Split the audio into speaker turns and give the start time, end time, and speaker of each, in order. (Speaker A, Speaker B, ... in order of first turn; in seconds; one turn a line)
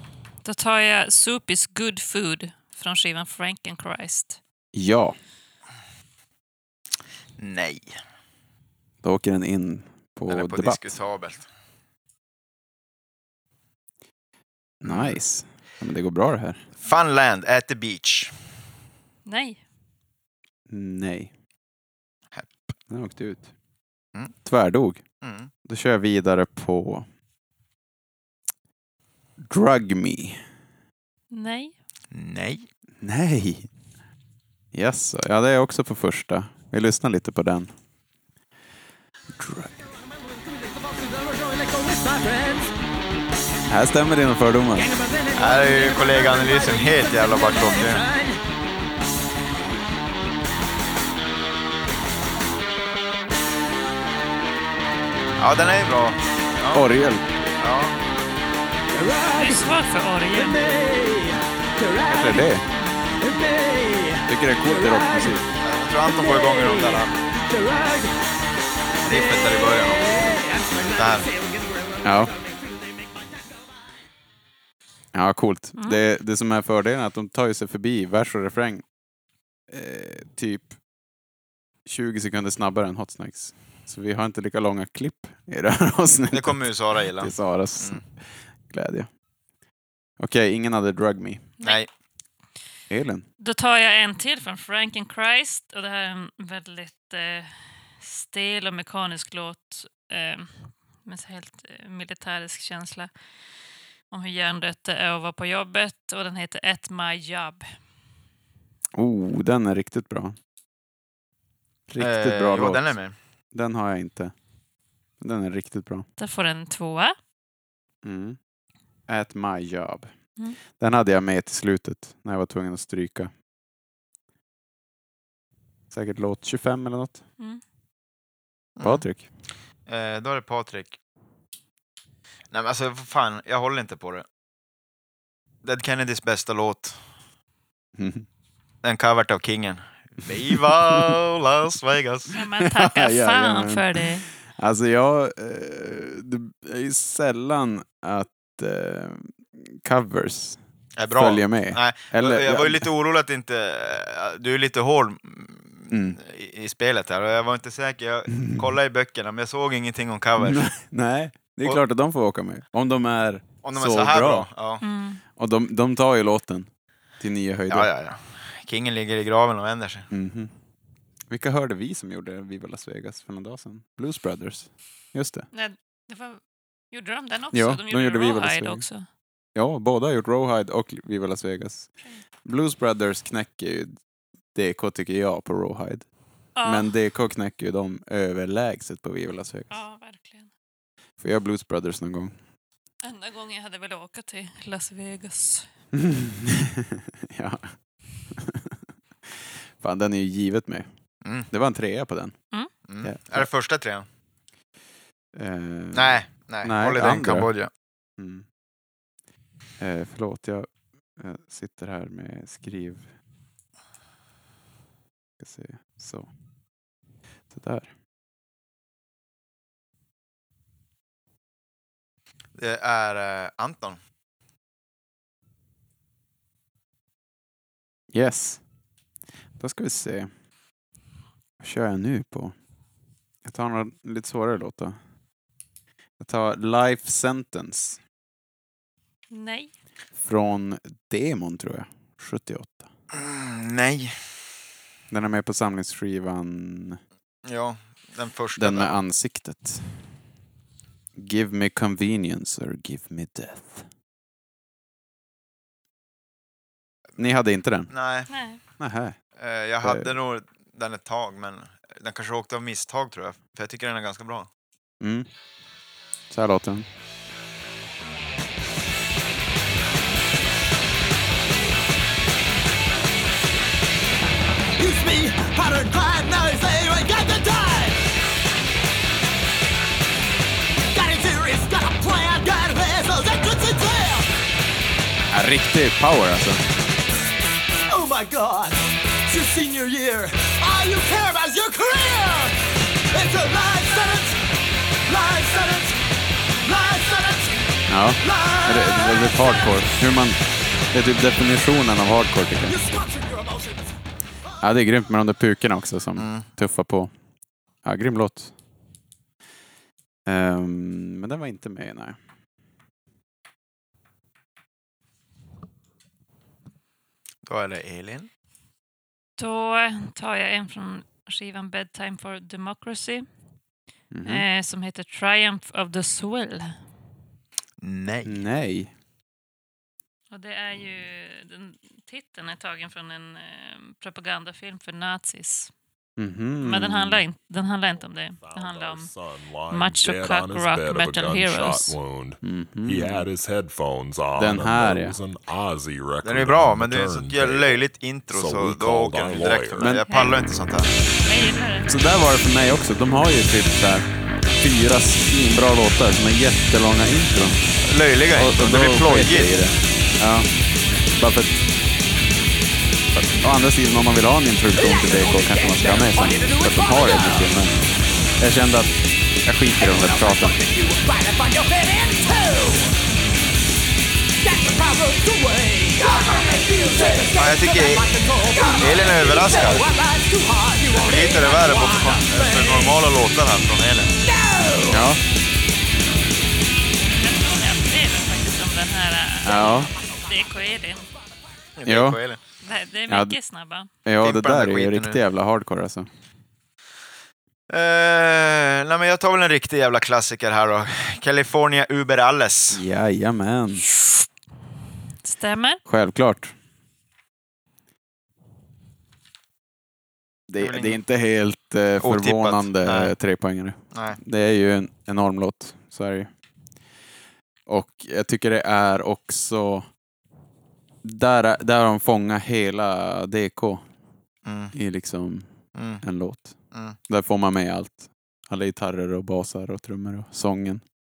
Speaker A: 0.4-4.4
Speaker B: 4.7-5.2
Speaker C: 7.4-7.9
Speaker B: 9.0-10.9
Speaker C: 10.3-11.5
Speaker B: 14.8-16.6
Speaker C: 14.8-15.2
Speaker C: 16.8-18.4
Speaker A: 19.3-19.6
Speaker B: 20.7-21.3
Speaker C: 22.3-22.7
Speaker B: 22.9-23.5
Speaker B: 24.4-25.0
Speaker C: 25.2-25.5
Speaker B: 25.6-27.1
Speaker B: 29.4-30.4
Speaker A: 31.3-31.7
Speaker C: 32.1-32.7
Speaker B: 33.0-33.7
Speaker B: 34.7-37.7
Speaker B: 39.4-39.8
Speaker D: 40.9-42.7
Speaker B: 43.7-45.0
Speaker D: 44.9-48.4
Speaker C: 45.3-48.0
Speaker C: 55.4-56.9
Speaker B: 56.7-57.2
Speaker C: 57.6-58.0
Speaker D: 58.9-59.6
Speaker A: 59.3-60.9
Speaker D: 60.4-62.4
Speaker B: 62.0-62.6
Speaker D: 63.2-65.3
Speaker B: 64.3-65.4
Speaker C: 65.6-67.2
Speaker D: 66.3-68.1
Speaker C: 69.0-71.3
Speaker D: 70.2-72.5
Speaker B: 72.0-72.3
Speaker B: 75.1-78.9
Speaker B: 79.7-80.8
Speaker B: 81.9-88.0
Speaker C: 86.3-88.0
Speaker B: 88.7-89.1
Speaker B: 90.2-91.5
Speaker B: 92.9-93.2
Speaker A: 93.4-103.1
Speaker A: 104.1-107.7
Speaker B: 109.0-110.4
Speaker B: 111.9-112.9
Speaker C: 112.0-113.2
Speaker B: 113.5-114.3
Speaker B: 115.2-116.1
Speaker A: 116.2-117.2
Speaker B: 118.0-118.4
Speaker B: 119.1-120.1
Speaker B: 120.8-123.3
Speaker B: 125.9-127.2
Speaker C: 128.8-129.0
Speaker B: 128.8-129.3
Speaker C: 129.9-131.0
Speaker C: 132.5-134.3
Speaker C: 135.6-137.0
Speaker B: 138.0-138.3
Speaker C: 138.8-142.3
Speaker A: 142.3-144.3
Speaker B: 142.6-150.6
Speaker C: 151.0-160.7
Speaker B: 151.1-152.9
Speaker B: 155.9-156.2
Speaker B: 160.4-164.5
Speaker C: 163.6-164.8
Speaker A: 164.8-165.2
Speaker B: 165.4-167.9
Speaker C: 167.7-170.1
Speaker B: 170.1-170.5
Speaker B: 171.3-175.5
Speaker A: 175.5-176.4
Speaker A: 176.9-179.1
Speaker B: 177.5-178.9
Speaker B: 179.6-181.9
Speaker B: 182.4-183.9
Speaker B: 184.6-186.1
Speaker A: 186.6-186.9
Speaker B: 186.6-189.8
Speaker A: 189.7-190.5
Speaker B: 191.2-192.3
Speaker A: 193.0-195.7
Speaker B: 195.9-197.7
Speaker B: 198.3-198.7
Speaker B: 199.8-200.9
Speaker B: 201.5-202.4
Speaker C: 202.9-204.1
Speaker B: 203.0-203.5
Speaker B: 205.3-207.5
Speaker C: 205.9-207.7
Speaker B: 208.2-208.5
Speaker B: 209.8-213.1
Speaker B: 215.4-216.3
Speaker B: 217.5-217.9
Speaker C: 222.6-224.0
Speaker B: 228.1-228.6
Speaker B: 229.6-230.3
Speaker B: 231.6-232.5
Speaker B: 233.4-235.0
Speaker B: 236.2-238.0
Speaker A: 239.3-239.7
Speaker B: 240.2-242.9
Speaker C: 243.1-244.2
Speaker B: 245.1-247.0
Speaker C: 247.4-249.0
Speaker B: 248.6-249.9
Speaker B: 251.2-253.9
Speaker B: 257.2-257.9
Speaker C: 257.9-258.3
Speaker A: 258.3-258.6
Speaker B: 258.8-259.2
Speaker C: 259.4-264.5
Speaker B: 259.8-260.1
Speaker B: 265.0-265.3
Speaker B: 266.3-266.9
Speaker D: 274.8-278.0
Speaker D: 280.8-284.3
Speaker B: 285.3-286.6
Speaker D: 287.9-292.6
Speaker D: 293.1-294.4
Speaker D: 295.1-296.0
Speaker D: 296.6-297.6
Speaker B: 297.9-300.4
Speaker D: 298.2-299.8
Speaker B: 300.9-302.8
Speaker D: 302.7-303.9
Speaker B: 304.6-307.1
Speaker C: 306.2-306.5
Speaker B: 307.8-308.5
Speaker B: 310.3-312.2
Speaker C: 317.5-318.3
Speaker A: 319.4-323.2
Speaker B: 324.1-324.5
Speaker A: 324.2-326.8
Speaker C: 327.8-328.4
Speaker B: 328.2-328.9
Speaker A: 330.3-335.7
Speaker B: 336.2-337.2
Speaker A: 336.6-339.1
Speaker E: 338.4-349.9
Speaker A: 339.7-342.0
Speaker B: 342.4-343.3
Speaker B: 344.4-345.2
Speaker C: 346.2-350.9
Speaker B: 349.8-350.1
Speaker A: 350.1-350.4
Speaker A: 351.3-351.9
Speaker B: 351.9-357.6
Speaker C: 357.8-359.5
Speaker B: 358.3-360.5
Speaker B: 361.1-361.6
Speaker B: 363.1-367.8
Speaker D: 364.7-367.5
Speaker B: 368.4-370.6
Speaker D: 369.8-372.9
Speaker D: 374.4-383.0
Speaker C: 377.3-379.8
Speaker C: 380.9-384.2
Speaker D: 384.2-385.1
Speaker B: 384.9-385.2
Speaker A: 387.2-391.1
Speaker B: 389.4-389.9
Speaker C: 391.8-392.4
Speaker B: 391.9-392.2
Speaker A: 392.6-393.9
Speaker B: 393.1-393.4
Speaker B: 394.1-396.1
Speaker C: 394.2-395.2
Speaker C: 397.7-402.8
Speaker B: 402.7-403.9
Speaker A: 405.2-405.8
Speaker B: 405.9-406.5
Speaker B: 410.5-416.3
Speaker C: 410.6-411.0
Speaker C: 412.0-413.1
Speaker C: 413.9-414.2
Speaker B: 417.7-419.9
Speaker B: 421.0-423.8
Speaker C: 424.5-424.7
Speaker B: 424.7-425.5
Speaker C: 425.8-426.0
Speaker B: 426.0-426.5
Speaker B: 427.1-430.8